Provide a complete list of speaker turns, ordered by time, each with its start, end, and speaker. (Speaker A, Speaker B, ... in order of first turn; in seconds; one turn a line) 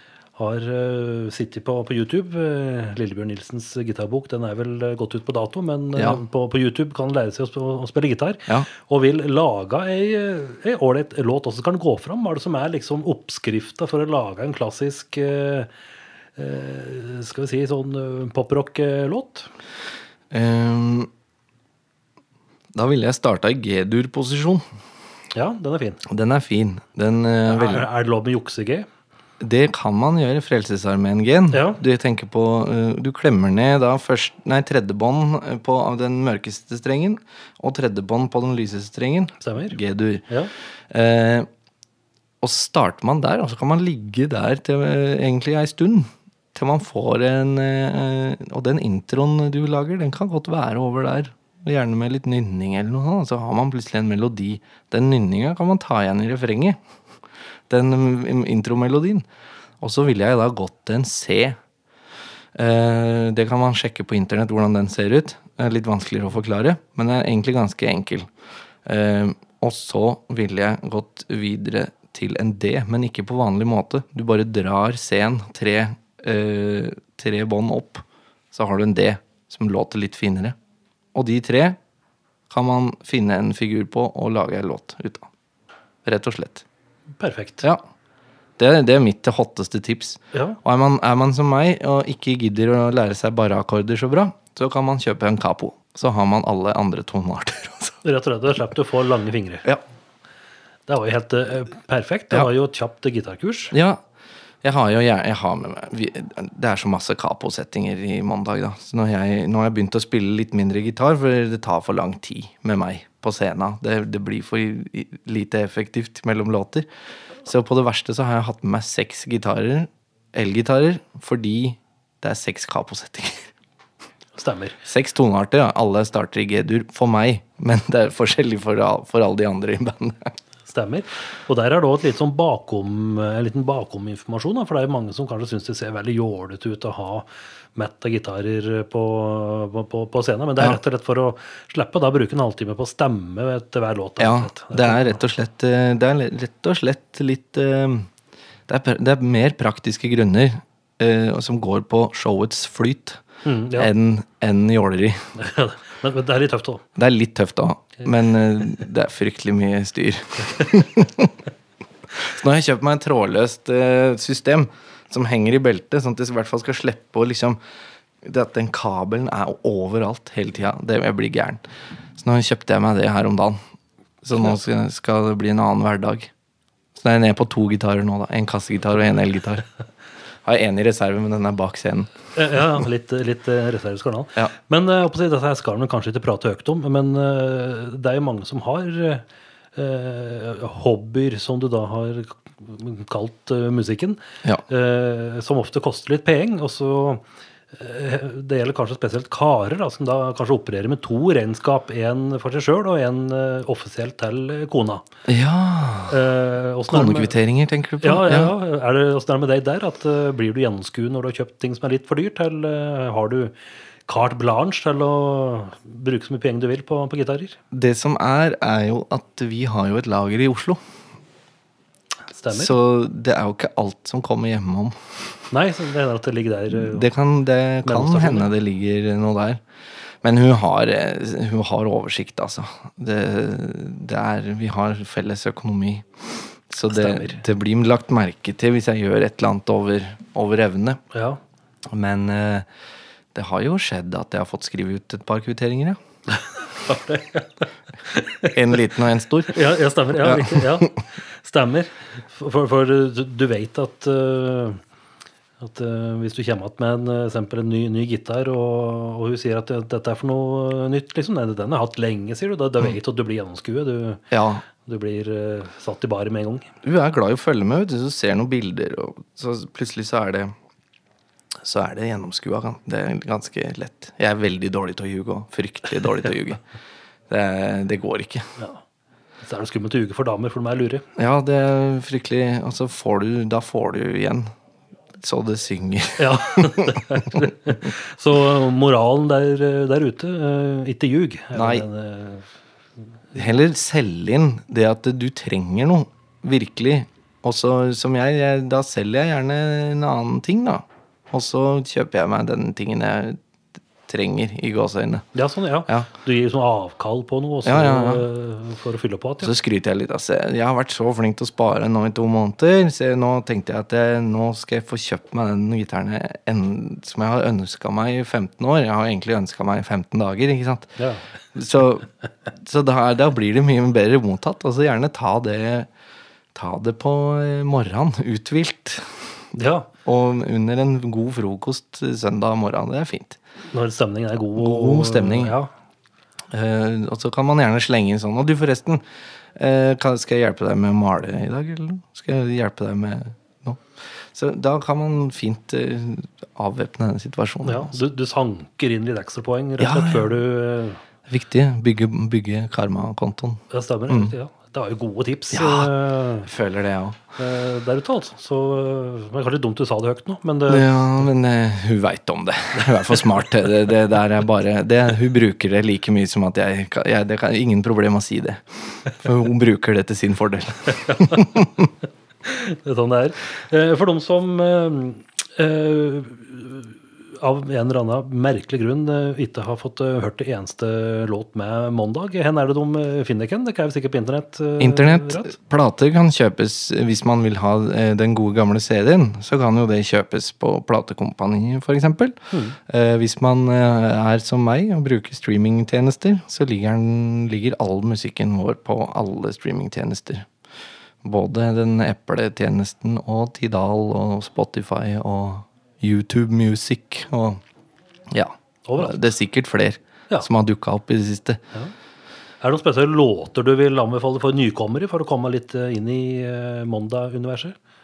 Speaker A: 0.3-15.7
Speaker B: 5.9-6.2
Speaker A: 16.4-19.5
Speaker B: 20.3-21.1
Speaker B: 22.7-24.6
Speaker A: 25.3-26.0
Speaker B: 26.1-27.9
Speaker A: 27.5-28.9
Speaker B: 29.4-40.3
Speaker A: 31.5-31.8
Speaker A: 39.4-39.8
Speaker B: 40.9-41.5
Speaker B: 42.4-56.8
Speaker B: 57.7-59.2
Speaker B: 59.8-61.5
Speaker B: 62.5-68.3
Speaker B: 68.8-80.5
Speaker B: 81.1-81.8
Speaker B: 82.5-85.3
Speaker B: 86.0-86.6
Speaker A: 87.2-87.6
Speaker B: 88.6-98.0
Speaker A: 90.3-90.6
Speaker A: 98.0-99.7
Speaker A: 100.9-103.7
Speaker B: 103.7-104.0
Speaker B: 104.6-116.9
Speaker B: 117.4-123.5
Speaker A: 124.3-124.8
Speaker B: 124.8-130.3
Speaker A: 130.7-145.2
Speaker B: 144.2-148.1
Speaker B: 148.7-153.2
Speaker A: 153.4-153.9
Speaker B: 153.7-155.3
Speaker A: 155.3-156.8
Speaker B: 156.9-161.4
Speaker B: 162.1-167.6
Speaker B: 168.2-171.6
Speaker B: 172.2-173.6
Speaker B: 174.2-176.3
Speaker B: 176.9-179.6
Speaker B: 180.4-182.8
Speaker A: 182.3-205.0
Speaker B: 205.3-206.2
Speaker A: 206.1-207.4
Speaker B: 206.9-208.5
Speaker A: 208.0-213.5
Speaker A: 214.1-217.6
Speaker B: 217.7-220.8
Speaker A: 222.3-222.7
Speaker B: 222.5-225.5
Speaker A: 225.5-227.1
Speaker B: 226.7-229.6
Speaker A: 227.8-228.5
Speaker B: 230.2-241.0
Speaker A: 236.9-237.4
Speaker A: 241.1-241.4
Speaker B: 241.9-242.7
Speaker B: 243.3-246.0
Speaker A: 246.3-248.6
Speaker B: 248.5-249.6
Speaker A: 249.5-254.8
Speaker B: 250.2-250.9
Speaker A: 255.6-266.7
Speaker B: 264.3-264.6
Speaker B: 266.8-270.5
Speaker B: 271.6-276.6
Speaker B: 277.3-278.5
Speaker A: 279.4-281.0
Speaker B: 281.2-284.5
Speaker B: 285.2-287.5
Speaker A: 286.2-292.5
Speaker B: 291.5-291.8
Speaker B: 293.3-303.4
Speaker B: 304.1-305.2
Speaker A: 305.3-309.5
Speaker B: 307.6-308.2
Speaker B: 309.4-320.9
Speaker A: 321.0-321.2
Speaker B: 321.5-325.9
Speaker B: 326.5-329.4
Speaker A: 329.5-329.9
Speaker B: 330.0-333.4
Speaker A: 333.7-335.7
Speaker B: 334.6-335.6
Speaker B: 336.5-339.0
Speaker B: 339.6-347.9
Speaker A: 347.6-351.0
Speaker B: 349.8-350.3
Speaker B: 351.3-354.3
Speaker A: 353.7-356.5
Speaker B: 355.5-357.2
Speaker A: 357.4-360.9
Speaker B: 360.7-371.9
Speaker A: 362.8-363.1
Speaker A: 371.0-371.6
Speaker A: 372.4-385.6
Speaker B: 384.8-400.5
Speaker A: 392.5-392.8
Speaker B: 401.2-407.6
Speaker B: 408.3-411.6
Speaker A: 408.9-409.3
Speaker A: 412.6-417.8